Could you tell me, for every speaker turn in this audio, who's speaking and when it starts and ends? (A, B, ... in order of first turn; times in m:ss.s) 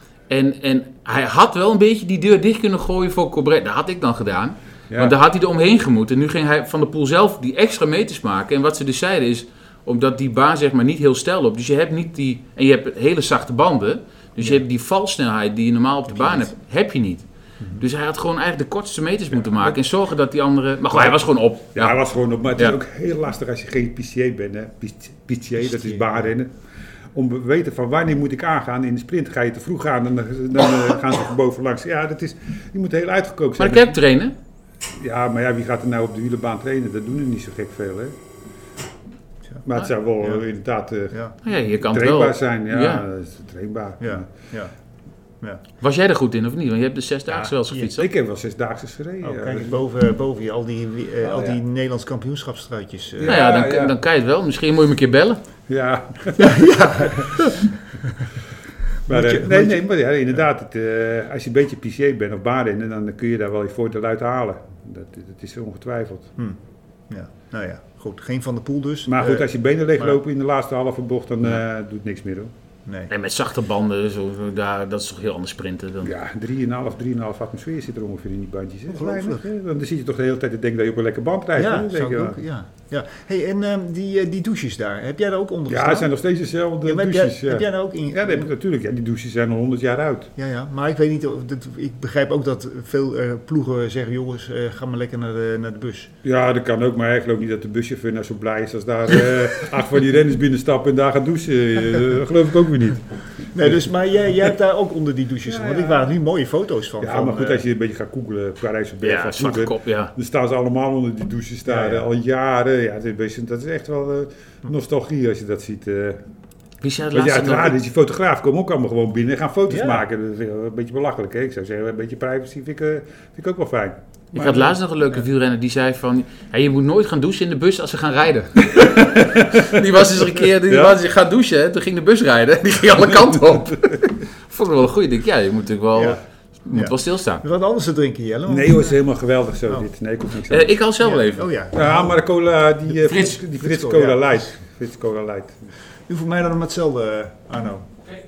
0:00.3-0:17.3 A
0:04.9-0:05.2 B
0:17.8-0:22.0 A
0:19.3-0:19.8 B
0:21.7-0:26.5 B
0:25.6-0:26.3 C
0:27.2-0:34.0 B
0:33.6-0:34.4 A
0:34.9-0:38.2 B
0:39.6-0:41.2 B
0:41.4-0:43.0 A
0:41.8-0:44.3 B
0:44.0-0:44.7 C
0:45.8-0:48.1 A
0:47.3-0:47.9 C
0:47.9-0:49.8 B
0:49.2-0:53.4 C
0:51.3-0:51.6 B
0:53.2-0:54.0 B
0:53.3-0:55.4 A
0:55.7-0:57.5 B
0:56.4-0:58.2 C
0:59.1-0:59.8 C
0:59.1-1:06.3 B
1:07.1-1:09.5 C
1:09.1-1:12.5 B
1:12.9-1:13.1 C
1:13.1-1:16.1 A
1:16.0-1:22.4 B
1:18.9-1:19.4 C
1:21.6-1:26.1 C
1:25.7-1:30.3 B
1:26.8-1:28.5 C
1:30.4-1:36.1 C
1:36.2-1:43.1 B
1:43.5-1:47.6 C
1:45.4-1:46.1 B
1:47.0-1:56.2 B
1:49.0-1:50.1 A
1:51.7-1:52.1 C
1:56.8-1:57.8 A
1:57.1-2:04.8 B
1:59.7-2:00.0 C
2:04.3-2:17.4 A
2:08.7-2:09.8 B
2:10.6-2:11.0 B
2:15.9-2:19.0 C
2:18.5-2:20.8 B
2:20.5-2:21.5 A
2:21.0-2:22.2 C
2:21.7-2:25.6 B
2:23.1-2:23.4 A
2:23.3-2:24.5 C
2:26.1-2:28.0 C